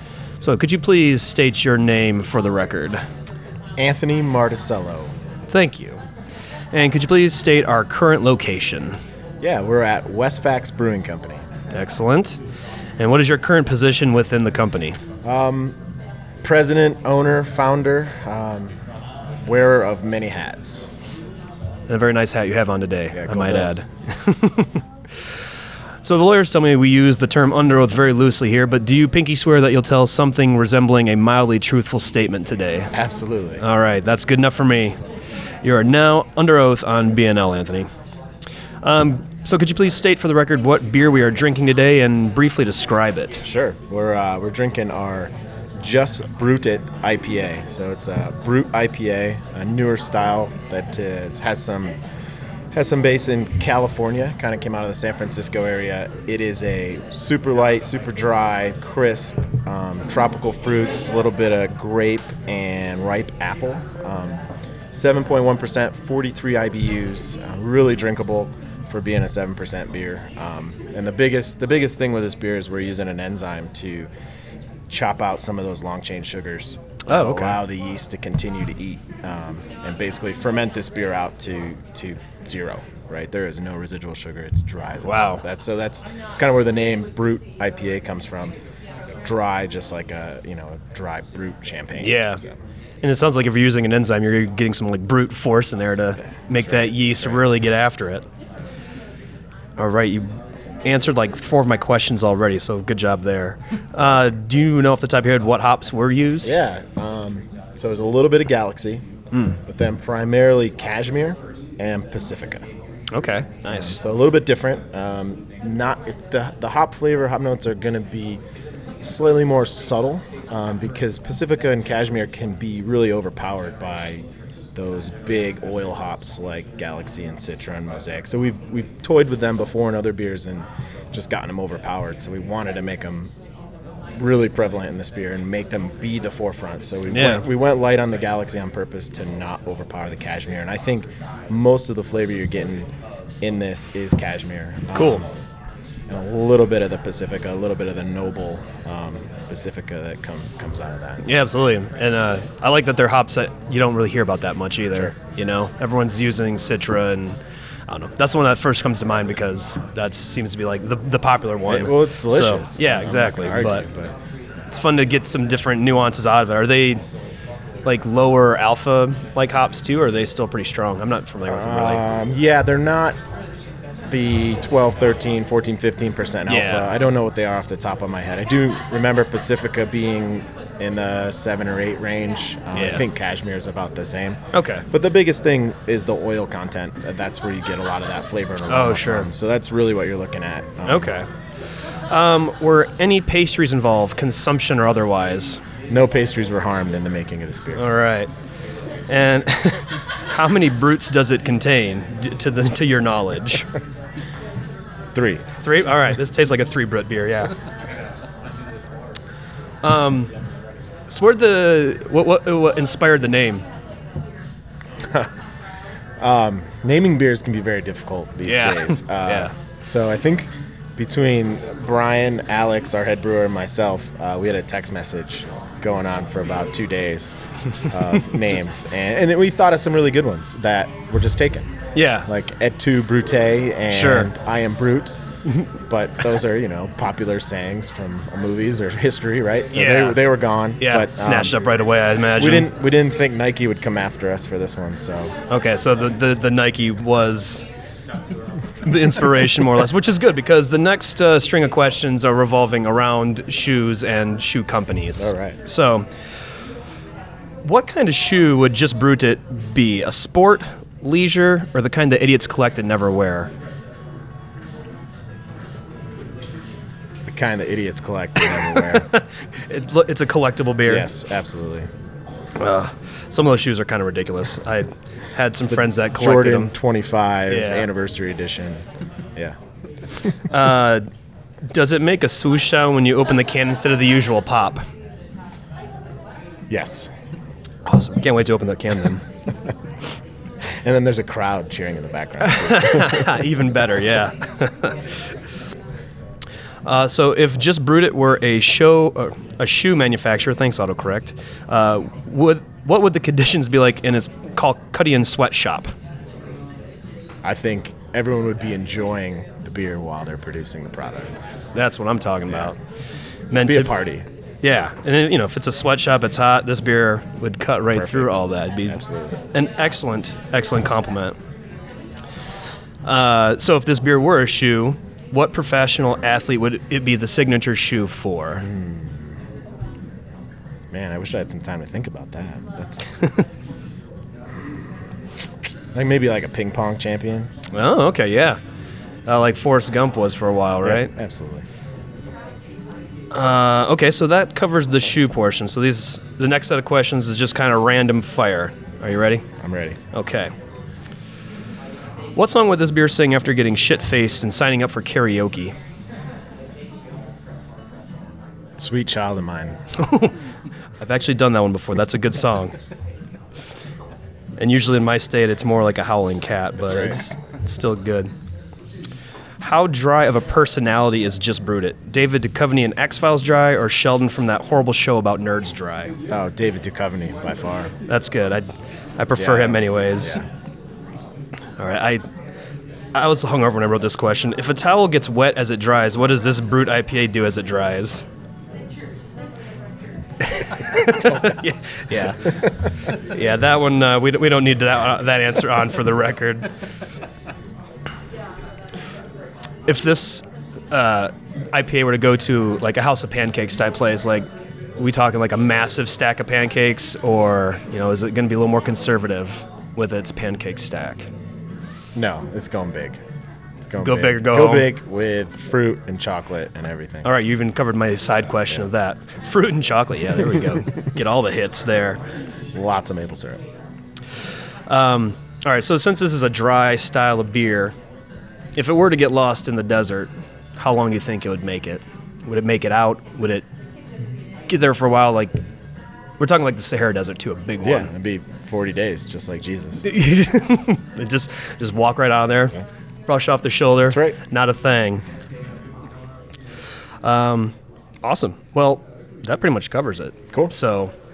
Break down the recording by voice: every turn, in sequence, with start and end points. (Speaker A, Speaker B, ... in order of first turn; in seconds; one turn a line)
Speaker A: 0.4-3.0
Speaker B: 3.8-5.1
Speaker A: 5.5-6.0
Speaker A: 6.7-9.0
Speaker B: 9.4-11.4
Speaker A: 11.7-12.4
Speaker A: 13.0-15.0
Speaker B: 15.2-15.8
Speaker B: 16.4-18.7
Speaker B: 19.4-20.9
Speaker A: 21.9-24.8
Speaker B: 23.1-23.8
Speaker A: 26.0-32.9
Speaker B: 32.9-33.6
Speaker A: 33.6-35.0
Speaker A: 35.6-37.9
Speaker A: 38.8-43.5
Speaker B: 43.4-52.0
Speaker B: 52.7-74.1
Speaker B: 74.9-88.5
Speaker A: 77.1-77.6
Speaker A: 85.0-85.4
Speaker B: 89.2-92.6
Speaker A: 92.0-92.4
Speaker A: 93.0-98.2
Speaker B: 96.4-97.5
Speaker A: 99.8-106.6
Speaker B: 106.4-109.0
Speaker B: 109.7-112.6
Speaker A: 113.1-114.0
Speaker B: 113.7-118.4
Speaker B: 119.0-124.2
Speaker B: 124.8-133.3
Speaker B: 134.2-142.9
Speaker A: 137.1-137.5
Speaker B: 143.4-145.3
Speaker A: 144.9-145.2
Speaker B: 146.1-151.3
Speaker A: 151.2-157.4
Speaker A: 157.9-163.9
Speaker B: 161.7-164.2
Speaker A: 164.7-167.0
Speaker A: 167.8-172.0
Speaker B: 171.5-173.2
Speaker B: 174.1-191.2
Speaker A: 176.5-176.9
Speaker A: 182.8-183.0
Speaker A: 184.5-184.8
Speaker A: 188.7-189.3
Speaker A: 190.9-191.3
Speaker A: 192.1-195.6
Speaker B: 195.9-197.8
Speaker A: 197.8-198.3
Speaker A: 199.1-203.7
Speaker B: 205.2-205.4
Speaker A: 205.6-207.5
Speaker A: 209.8-210.3
Speaker A: 211.1-213.7
Speaker B: 216.2-231.7
Speaker A: 218.5-219.5
Speaker A: 231.9-232.3
Speaker B: 232.2-235.2
Speaker A: 233.9-234.3
Speaker B: 235.9-241.6
Speaker A: 239.7-240.2
Speaker A: 240.8-242.7
Speaker B: 242.4-245.3
Speaker A: 245.5-247.7
Speaker A: 248.8-256.1
Speaker B: 255.2-255.6
Speaker A: 257.6-263.5
Speaker B: 267.3-269.1
Speaker A: 268.7-271.1
Speaker B: 270.9-271.9
Speaker A: 272.6-276.7
Speaker B: 275.6-278.8
Speaker A: 277.5-277.9
Speaker A: 280.5-281.1
Speaker A: 281.6-284.8
Speaker B: 286.7-287.1
Speaker A: 287.9-289.2
Speaker B: 290.8-293.4
Speaker A: 292.4-295.0
Speaker A: 296.9-305.9
Speaker B: 307.4-311.4
Speaker A: 311.8-312.8
Speaker B: 312.5-312.7
Speaker A: 313.5-313.9
Speaker B: 313.6-314.3
Speaker A: 314.6-319.0
Speaker B: 317.9-319.4
Speaker A: 319.5-321.4
Speaker A: 323.1-328.6
Speaker B: 328.6-329.4
Speaker B: 330.9-333.2
Speaker B: 335.9-337.5
Speaker A: 337.7-338.6
Speaker A: 339.3-341.1
Speaker B: 340.8-341.6
Speaker A: 343.3-349.4
Speaker B: 349.6-350.0
Speaker A: 350.1-350.5
Speaker A: 352.4-355.7
Speaker B: 358.8-359.8
Speaker A: 360.0-360.3
Speaker A: 361.0-362.7
Speaker A: 364.6-368.3
Speaker B: 366.8-367.2
Speaker A: 369.6-376.1
Speaker B: 376.3-377.9
Speaker A: 378.1-378.7
Speaker A: 379.2-380.4
Speaker B: 379.4-380.4
Speaker A: 381.8-382.2
Speaker A: 383.1-388.2
Speaker A: 390.4-396.7
Speaker B: 391.3-391.6
Speaker A: 399.9-411.3
Speaker B: 412.1-413.2
Speaker B: 413.8-417.3
Speaker A: 414.0-414.9
Speaker A: 417.2-422.2
Speaker B: 422.7-423.6
Speaker A: 424.9-427.9
Speaker A: 428.8-433.7
Speaker A: 434.7-435.6
Speaker A: 436.4-438.1
Speaker B: 437.8-440.1
Speaker A: 440.0-445.2
Speaker B: 444.1-444.4
Speaker A: 447.2-451.1